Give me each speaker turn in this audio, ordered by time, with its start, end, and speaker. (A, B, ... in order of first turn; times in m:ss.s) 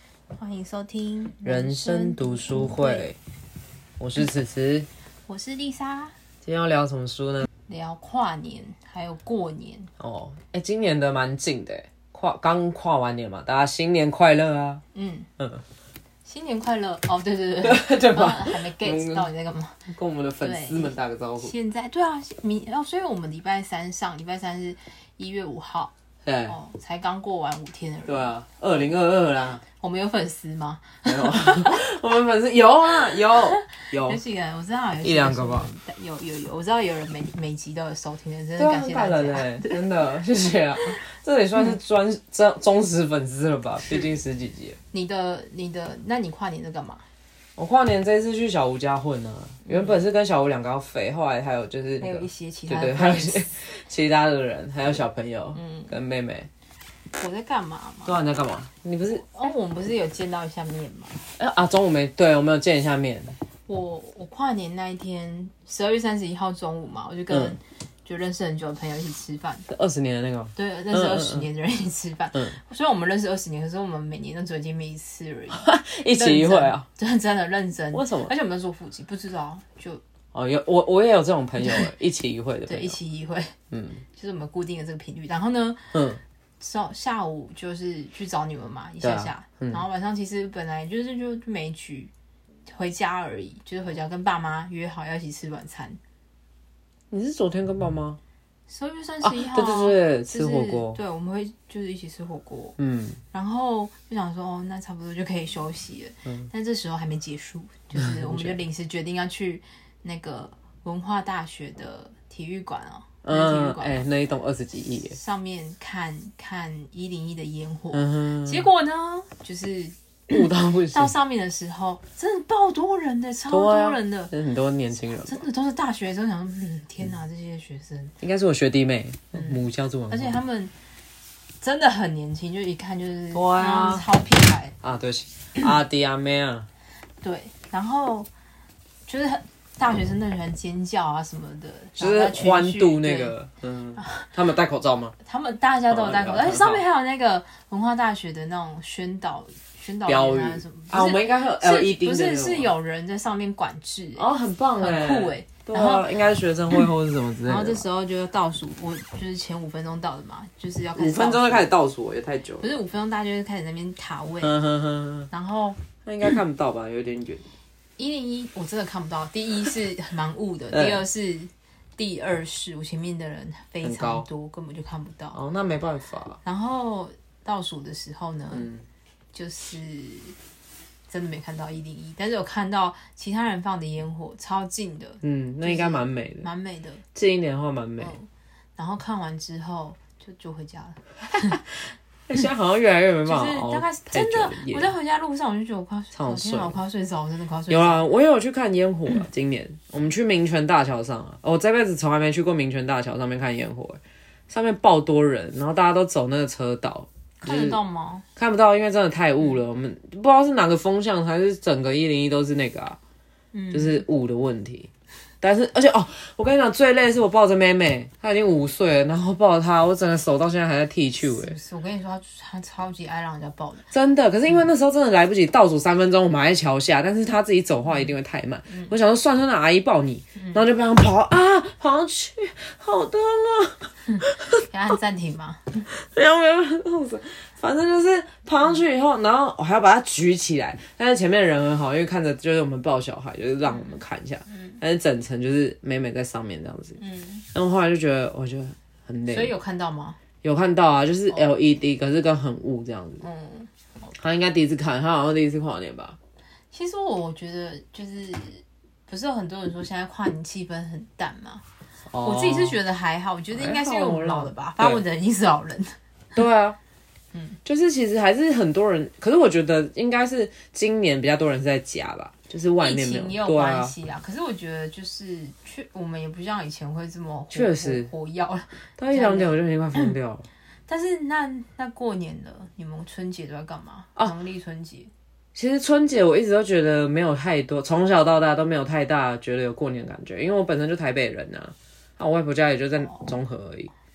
0:00.3-0:03.1 A
0:01.4-0:03.2 B
0:04.0-0:04.9 B
0:05.3-0:06.2 A
0:06.4-0:07.5 B
0:07.7-0:09.9 A
0:10.0-0:14.8 B
0:14.9-0:15.3 A
0:16.2-0:19.9 A
0:17.6-0:19.3 B
0:19.9-0:21.5 B
0:20.4-0:25.9 A
0:26.2-0:26.6 B
0:26.5-0:28.3 A
0:28.1-0:29.6 B
0:29.6-0:31.8 A
0:31.0-0:34.2 B
0:33.9-0:39.9 A
0:35.0-0:35.7 B
0:38.6-0:44.8 B
0:44.9-0:47.1 A
0:47.6-0:56.5 B
0:49.7-0:50.0 A
0:52.0-0:53.5 A
0:55.6-0:55.9 A
0:57.2-0:58.2 A
0:58.0-0:59.2 B
0:59.2-1:01.2 A
1:01.4-1:03.4 B
1:03.7-1:09.7 A
1:07.3-1:07.6 B
1:09.7-1:11.5 B
1:10.6-1:15.6 A
1:15.5-1:16.9 B
1:16.2-1:20.0 A
1:17.9-1:18.3 B
1:20.3-1:23.0 B
1:22.7-1:23.6 A
1:23.7-1:24.0 B
1:24.1-1:26.0 A
1:25.9-1:26.2 B
1:26.6-1:32.1 A
1:29.0-1:29.8 B
1:32.7-1:36.0 A
1:37.1-1:38.2 B
1:38.7-1:42.8 A
1:39.2-1:41.0 B
1:42.8-1:43.2 B
1:43.3-1:54.0 A
1:47.9-1:48.6 B
1:53.2-1:55.2 B
1:55.1-2:04.3 A
1:57.9-1:58.6 B
2:00.3-2:01.1 B
2:03.5-2:05.4 B
2:05.3-2:08.2 A
2:08.2-2:10.4 B
2:09.3-2:10.7 A
2:11.6-2:14.8 A
2:13.3-2:14.0 B
2:14.8-2:16.7 B
2:17.2-2:18.3 A
2:19.1-2:23.4 A
2:22.0-2:25.2 B
2:24.0-2:24.3 A
2:25.2-2:34.3 A
2:25.9-2:26.8 B
2:30.1-2:32.7 B
2:34.2-2:37.9 B
2:34.8-2:36.1 A
2:37.5-2:41.7 A
2:41.0-2:42.7 B
2:42.6-2:44.6 A
2:44.4-2:45.3 B
2:45.3-2:45.8 A
2:46.0-2:47.4 B
2:48.0-2:55.4 A
2:50.7-2:51.0 B
2:53.8-2:54.3 B
2:55.3-2:56.4 B
2:56.4-2:58.7 A
2:58.5-2:58.8 B
2:59.3-3:00.4 A
3:01.1-3:07.0 A
3:05.2-3:06.5 B
3:07.2-3:08.2 B
3:08.0-3:11.6 A
3:11.3-3:14.9 B
3:13.2-3:18.0 A
3:16.1-3:16.8 B
3:17.7-3:27.8 B
3:27.4-3:28.2 A
3:28.4-3:33.0 B
3:33.5-3:34.0 A
3:33.7-3:34.9 B
3:35.4-3:41.6 B
3:41.2-3:43.9 A
3:43.9-3:54.6 B
3:48.7-3:48.9 A
3:50.4-3:50.6 A
3:54.1-3:55.9 A
3:55.9-4:07.0 B
4:04.5-4:04.8 A
4:07.0-4:07.4 A
4:07.5-4:09.5 B
4:09.3-4:10.2 A
4:10.4-4:13.2 B
4:13.2-4:13.7 A
4:14.2-4:16.2 B
4:16.7-4:21.6 A
4:22.1-4:22.8 B
4:22.2-4:26.0 A
4:23.5-4:25.0 B
4:26.4-4:26.8 B
4:27.3-4:27.6 A
4:27.6-4:33.9 B
4:32.8-4:40.1 A
4:37.5-4:38.1 B
4:39.0-4:40.5 B
4:40.9-4:45.1 A
4:45.6-4:53.9 B